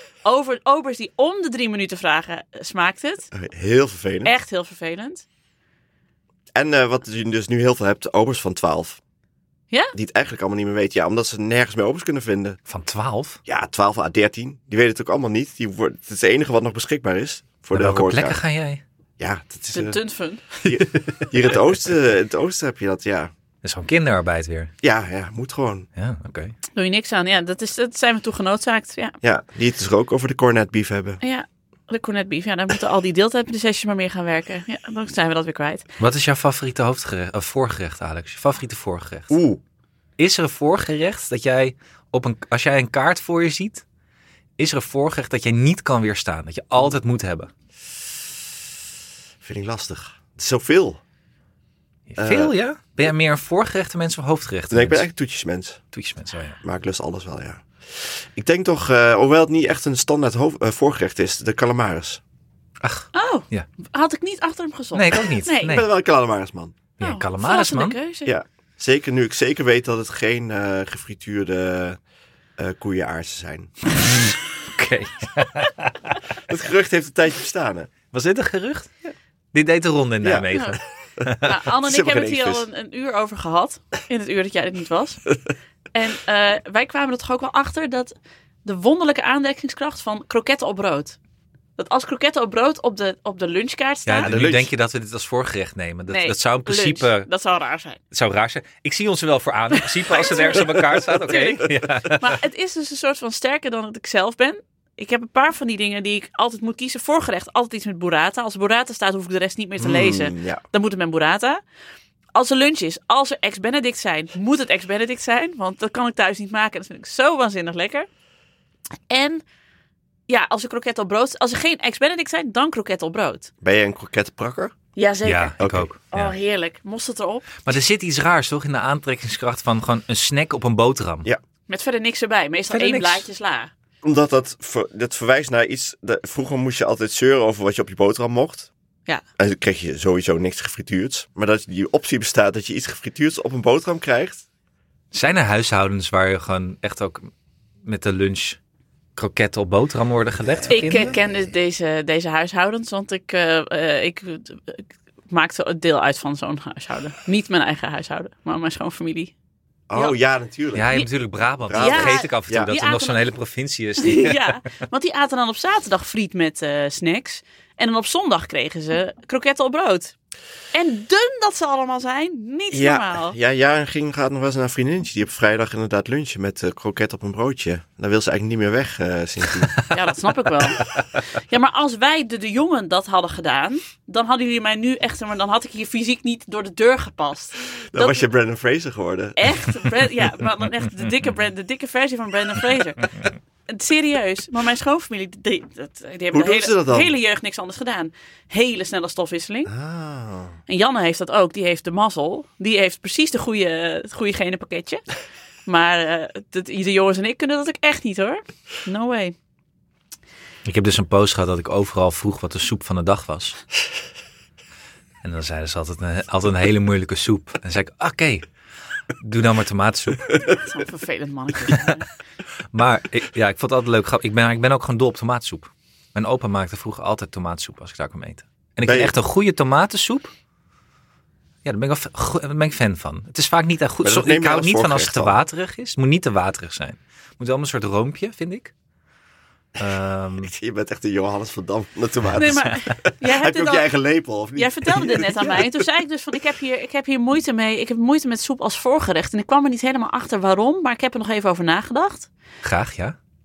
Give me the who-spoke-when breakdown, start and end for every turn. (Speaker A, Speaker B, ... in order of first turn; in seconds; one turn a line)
Speaker A: 0.2-3.3
Speaker B: 3.3-4.3
Speaker A: 4.2-5.2
Speaker B: 6.5-9.0
Speaker B: 9.9-12.6
Speaker C: 12.7-13.4
Speaker B: 13.4-18.4
Speaker C: 17.7-18.8
Speaker B: 19.2-20.0
Speaker A: 19.7-20.4
Speaker B: 20.6-23.3
Speaker C: 20.7-21.1
Speaker C: 23.6-24.7
Speaker B: 24.8-25.9
Speaker C: 26.0-26.5
Speaker A: 26.7-29.1
Speaker B: 29.2-31.2
Speaker A: 31.2-35.8
Speaker C: 36.0-39.3
Speaker B: 39.3-39.6
Speaker C: 40.2-43.8
Speaker C: 44.6-47.5
Speaker B: 49.4-51.0
Speaker C: 52.1-55.0
Speaker B: 52.2-52.5
Speaker B: 54.7-55.8
Speaker C: 55.9-56.6
Speaker B: 56.6-62.2
Speaker C: 62.8-63.7
Speaker A: 63.1-65.8
Speaker C: 64.9-65.9
Speaker B: 65.6-66.8
Speaker C: 67.0-68.0
Speaker A: 67.0-68.3
Speaker B: 68.2-72.0
Speaker B: 72.6-73.7
Speaker C: 74.0-76.2
Speaker B: 76.5-77.9
Speaker C: 78.1-78.9
Speaker C: 79.5-81.5
Speaker B: 80.2-80.5
Speaker A: 80.5-80.8
Speaker B: 81.2-82.7
Speaker A: 81.4-85.2
Speaker A: 85.9-91.2
Speaker A: 91.8-94.3
Speaker C: 94.1-97.3
Speaker B: 94.2-94.7
Speaker A: 96.1-98.0
Speaker C: 98.1-102.4
Speaker A: 99.7-111.6
Speaker B: 109.8-110.6
Speaker A: 112.3-118.1
Speaker A: 119.1-119.4
Speaker A: 120.3-123.5
Speaker B: 123.6-124.7
Speaker A: 125.0-125.6
Speaker C: 125.2-126.3
Speaker B: 125.6-125.9
Speaker A: 126.1-127.6
Speaker C: 127.6-131.3
Speaker A: 131.7-133.7
Speaker C: 132.7-133.3
Speaker B: 134.0-138.7
Speaker B: 139.4-144.4
Speaker C: 145.1-147.3
Speaker C: 147.8-148.6
Speaker C: 149.2-151.2
Speaker B: 150.6-151.2
Speaker A: 150.7-159.3
Speaker B: 159.9-161.0
Speaker C: 160.7-164.5
Speaker B: 161.7-162.7
Speaker A: 161.7-163.2
Speaker A: 164.0-170.1
Speaker A: 170.7-173.3
Speaker B: 172.7-179.9
Speaker A: 179.9-188.2
Speaker B: 187.9-189.7
Speaker A: 189.4-193.1
Speaker A: 193.7-199.7
Speaker B: 196.3-197.1
Speaker B: 199.7-200.6
Speaker A: 200.7-205.0
Speaker A: 205.7-209.3
Speaker C: 210.6-213.6
Speaker C: 215.2-218.5
Speaker C: 219.2-220.3
Speaker A: 220.5-222.1
Speaker C: 222.7-230.3
Speaker B: 228.8-229.1
Speaker C: 231.6-238.7
Speaker B: 234.0-235.4
Speaker C: 239.8-240.5
Speaker B: 240.4-245.7
Speaker A: 242.3-243.9
Speaker A: 244.6-252.3
Speaker C: 252.6-253.2